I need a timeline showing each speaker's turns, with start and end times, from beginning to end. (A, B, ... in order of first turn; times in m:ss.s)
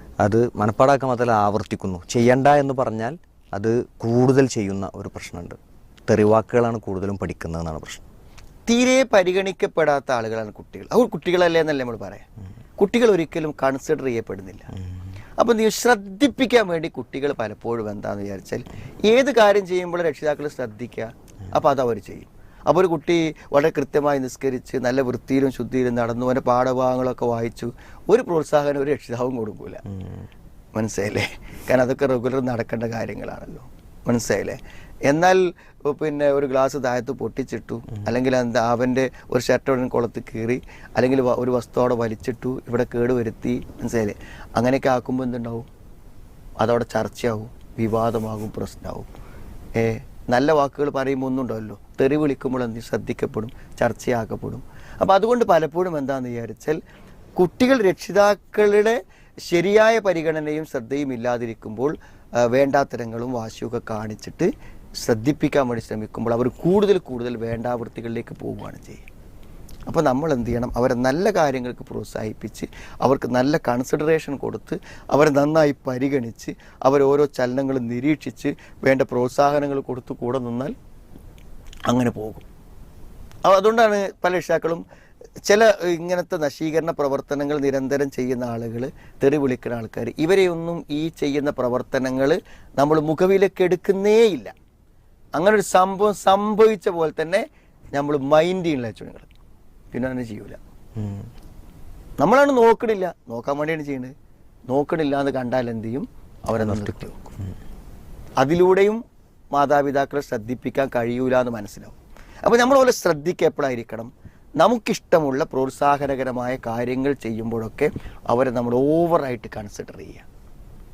0:00.2-0:08.0 A
0:08.6-0:12.2 B
0:12.8-0:14.7 B
0:15.4-0:29.8 B
0:30.7-0:45.7 B
0:46.6-0:49.1 B
0:49.8-0:56.8 B
0:57.4-1:04.5 B
1:05.0-1:09.0 B
1:09.9-1:20.7 B
1:21.9-1:22.4 B
1:23.4-1:24.8 B
1:25.5-1:34.5 B
1:35.4-1:39.3 B
1:39.9-1:40.6 B
1:41.0-1:41.3 A
1:42.2-1:44.1 B
1:44.7-1:47.2 B
1:46.6-1:47.0 A
1:48.4-1:49.0 B
1:49.5-2:00.2 B